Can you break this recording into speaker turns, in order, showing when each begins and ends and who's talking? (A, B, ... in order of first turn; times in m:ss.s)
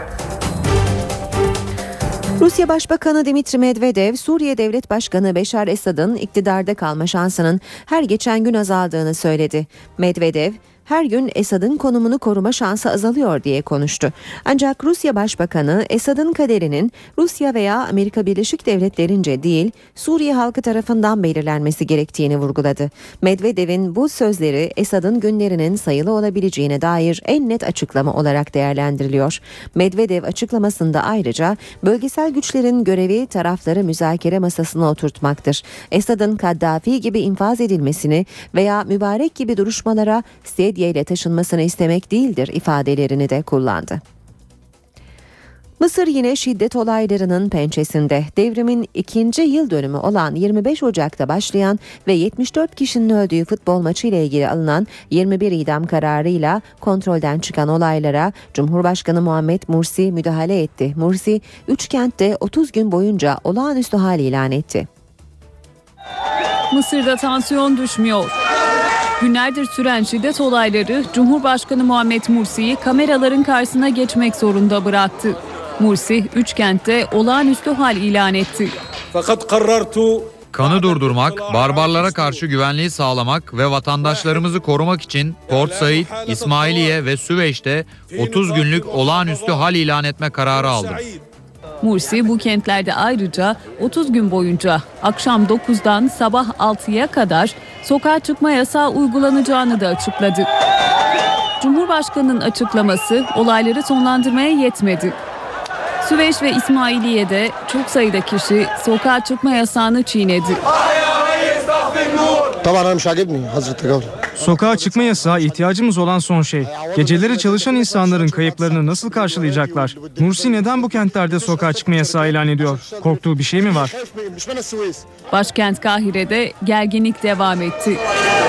0:02.4-0:44.0 A
0:45.8-1:04.9 A
1:06.7-1:08.3 B
1:09.2-1:18.7 B
1:19.1-1:20.3 C
1:20.5-1:31.1 D
1:31.8-1:40.5 B
1:41.6-1:45.2 B
1:46.0-1:50.6 B
1:54.4-2:03.9 C
2:05.3-2:08.0 B